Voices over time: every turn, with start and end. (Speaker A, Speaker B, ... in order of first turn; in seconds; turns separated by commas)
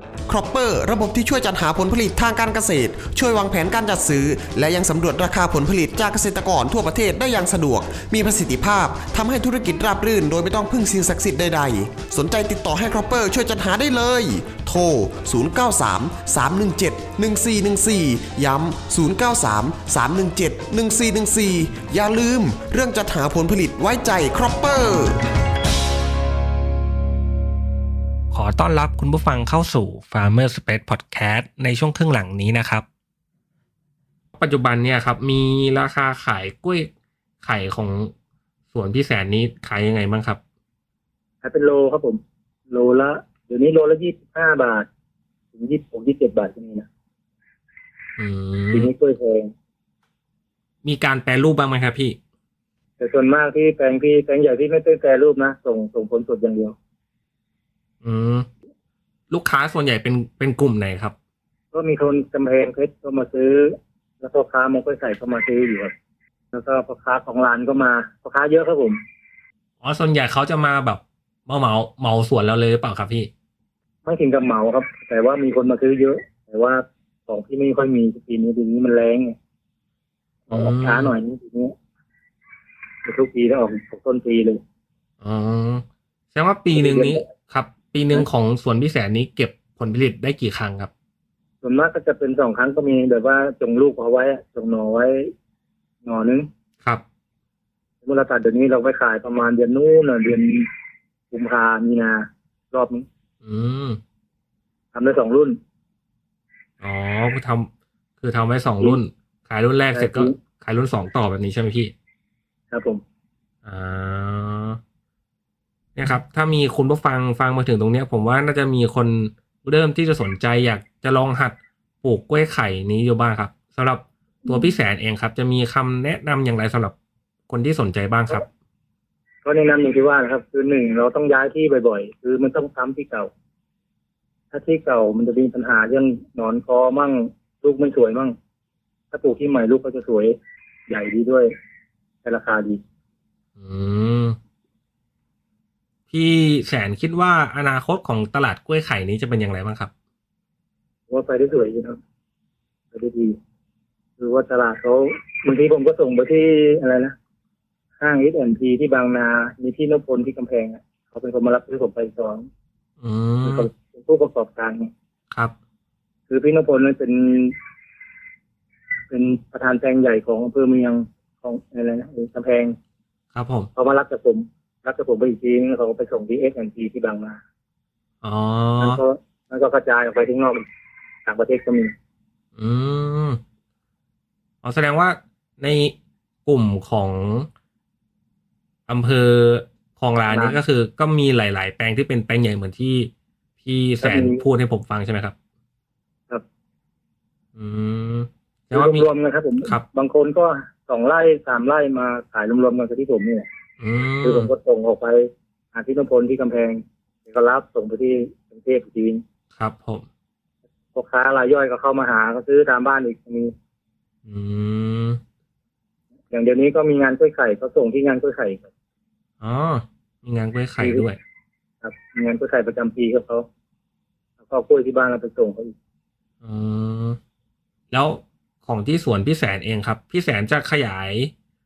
Speaker A: 0.3-25.2, Speaker B: 28.3-32.8, Speaker B: 34.3-36.9, Speaker B: 37.4-38.1, Speaker B: 38.7-40.4, Speaker C: 41.4-44.9, Speaker C: 45.5-46.9, Speaker B: 48.2-48.9, Speaker C: 48.7-49.5, Speaker B: 50.8-52.2, Speaker C: 53.0-56.8, Speaker B: 58.0-58.5, Speaker B: 59.3-61.1, Speaker C: 61.7-65.9, Speaker C: 66.5-69.0, Speaker B: 69.8-73.3, Speaker C: 74.0-79.3, Speaker B: 80.5-81.1, Speaker C: 80.5-81.7, Speaker C: 83.0-84.6, Speaker B: 85.2-90.9, Speaker C: 86.7-87.2, Speaker C: 91.6-95.3, Speaker C: 96.0-96.5, Speaker C: 98.0-100.7, Speaker C: 101.3-103.0, Speaker B: 103.4-104.0, Speaker C: 104.9-105.6, Speaker B: 106.8-107.7, Speaker B: 108.2-111.9, Speaker C: 109.9-110.3, Speaker C: 112.7-113.0, Speaker B: 113.6-114.8, Speaker B: 116.0-126.9, Speaker B: 127.5-128.4, Speaker C: 129.4-133.3, Speaker C: 134.5-138.3, Speaker C: 139.1-141.5, Speaker C: 142.2-142.8, Speaker B: 143.6-144.4, Speaker B: 146.1-149.9, Speaker C: 151.1-152.0, Speaker C: 152.9-153.4, Speaker C: 154.2-157.1, Speaker C: 158.0-162.5, Speaker B: 163.0-163.7, Speaker C: 163.4-164.9, Speaker C: 166.3-167.6, Speaker C: 169.1-172.8, Speaker B: 173.3-173.7, Speaker C: 173.7-177.4, Speaker B: 178.2-179.0, Speaker C: 178.8-180.7, Speaker C: 181.2-181.9, Speaker B: 182.6-183.4, Speaker B: 184.6-185.9, Speaker B: 186.4-187.5, Speaker B: 188.9-195.3, Speaker C: 190.3-190.6, Speaker C: 194.0-194.4, Speaker B: 197.5-199.1, Speaker C: 198.7-203.5, Speaker B: 203.8-204.5, Speaker C: 204.2-209.2, Speaker B: 209.5-210.0, Speaker C: 210.9-213.5, Speaker B: 214.2-215.2, Speaker C: 216.3-218.7, Speaker B: 219.4-221.2, Speaker C: 220.8-221.1, Speaker C: 221.8-223.4, Speaker C: 224.4-225.7, Speaker B: 226.4-227.2, Speaker B: 227.9-231.3